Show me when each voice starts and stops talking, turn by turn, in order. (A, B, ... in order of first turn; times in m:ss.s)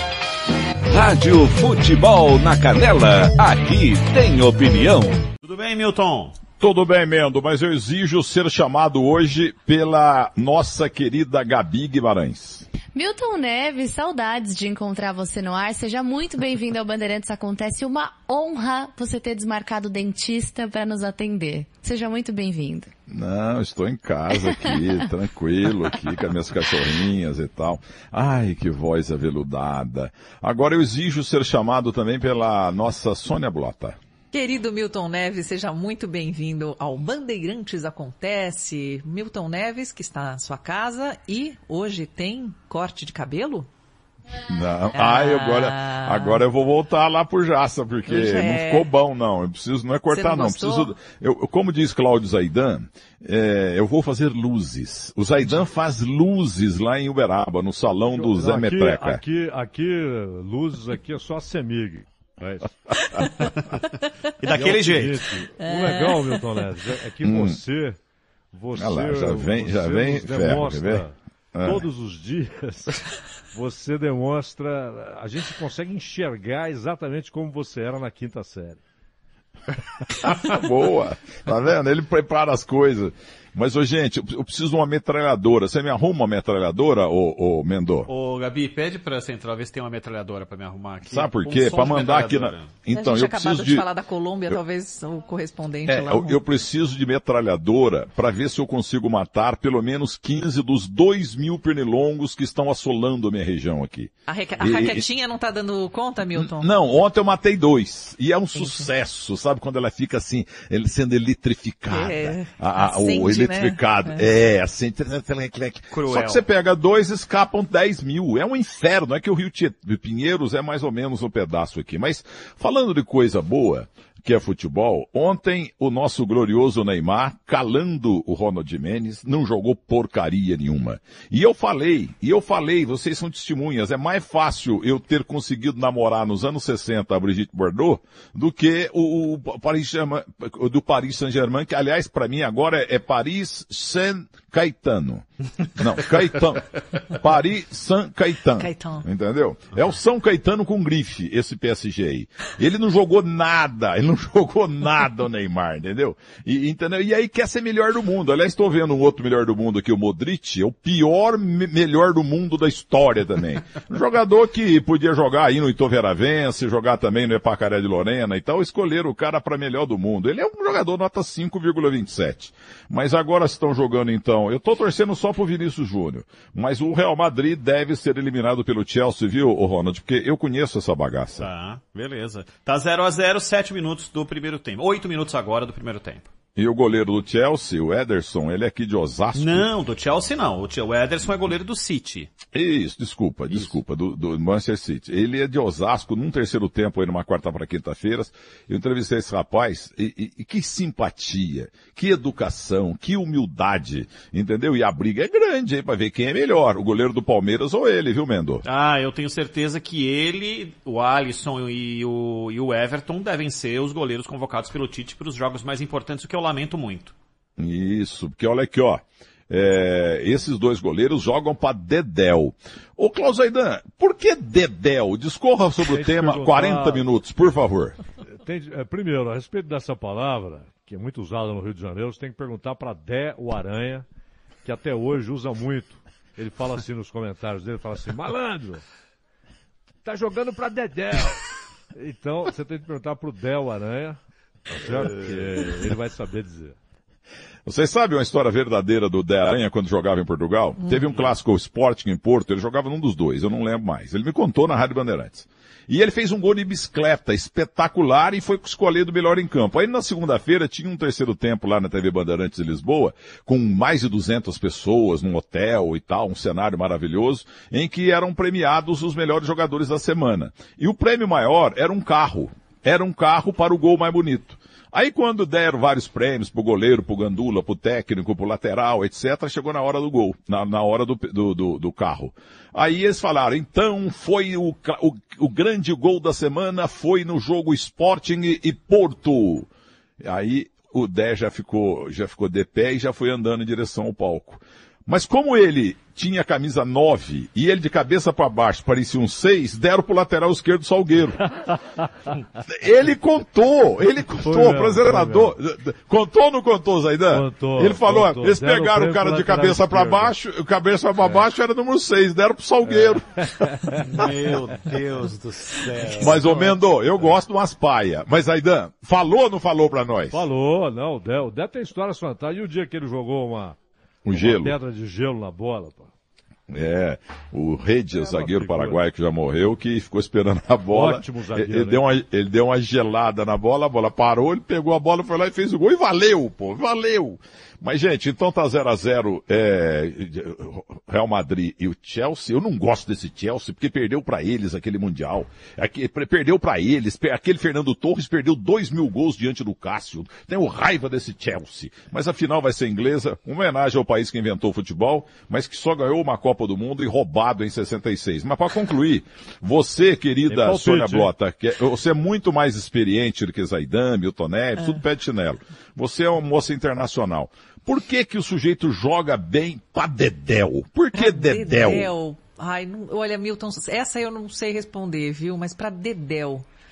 0:00.9-0:05.2 A
0:05.4-0:06.4 B
0:06.6-0:12.7 C
0:13.0-0:22.9 D
0:23.1-0:34.0 C
0:34.3-0:43.7 E
0:44.5-0:59.2 C
0:45.0-0:46.4 E
0:48.1-0:48.9 E
0:50.1-0:51.0 E
0:58.1-1:03.5 F
1:04.4-1:05.3 B
1:04.5-1:08.0 F
1:05.6-1:06.4 E
1:07.2-1:07.6 C
1:08.5-1:11.1 F
1:08.8-1:11.8 C
1:11.6-1:13.0 F
1:13.5-1:18.8 F
1:20.3-1:28.1 C
1:28.1-1:32.8 B
1:31.1-1:33.9 C
1:32.9-1:36.4 E
1:35.9-1:45.0 C
1:44.3-1:46.8 E
1:46.3-3:01.5 C
1:48.6-1:48.9 E
1:51.9-1:54.3 E
1:55.9-1:56.4 B
2:28.6-2:29.0 E
3:01.4-3:06.3 B
3:06.6-3:09.7 C
3:09.4-3:12.3 B
3:12.5-3:28.6 C
3:28.6-3:37.1 B
3:37.6-3:48.0 C
3:45.8-3:47.1 F
3:48.4-3:54.0 F
3:54.6-3:58.8 F
4:00.0-4:01.4 F
4:02.0-4:04.2 F
4:04.7-4:06.8 F
4:07.7-4:49.7 C
4:50.2-5:01.4 C
5:01.4-5:01.8 F
5:02.7-5:13.3 C
5:04.4-5:05.5 F
5:07.3-5:10.3 F
5:11.2-5:11.5 F
5:12.9-5:14.0 F
5:16.1-5:20.4 C
5:16.5-5:16.7 F
5:20.3-5:23.8 F
5:24.2-5:24.8 C
5:24.3-5:26.1 F
5:26.7-6:12.1 C
5:28.1-5:29.0 F
5:30.9-5:32.0 F
6:00.5-6:01.3 F
6:11.1-6:16.6 E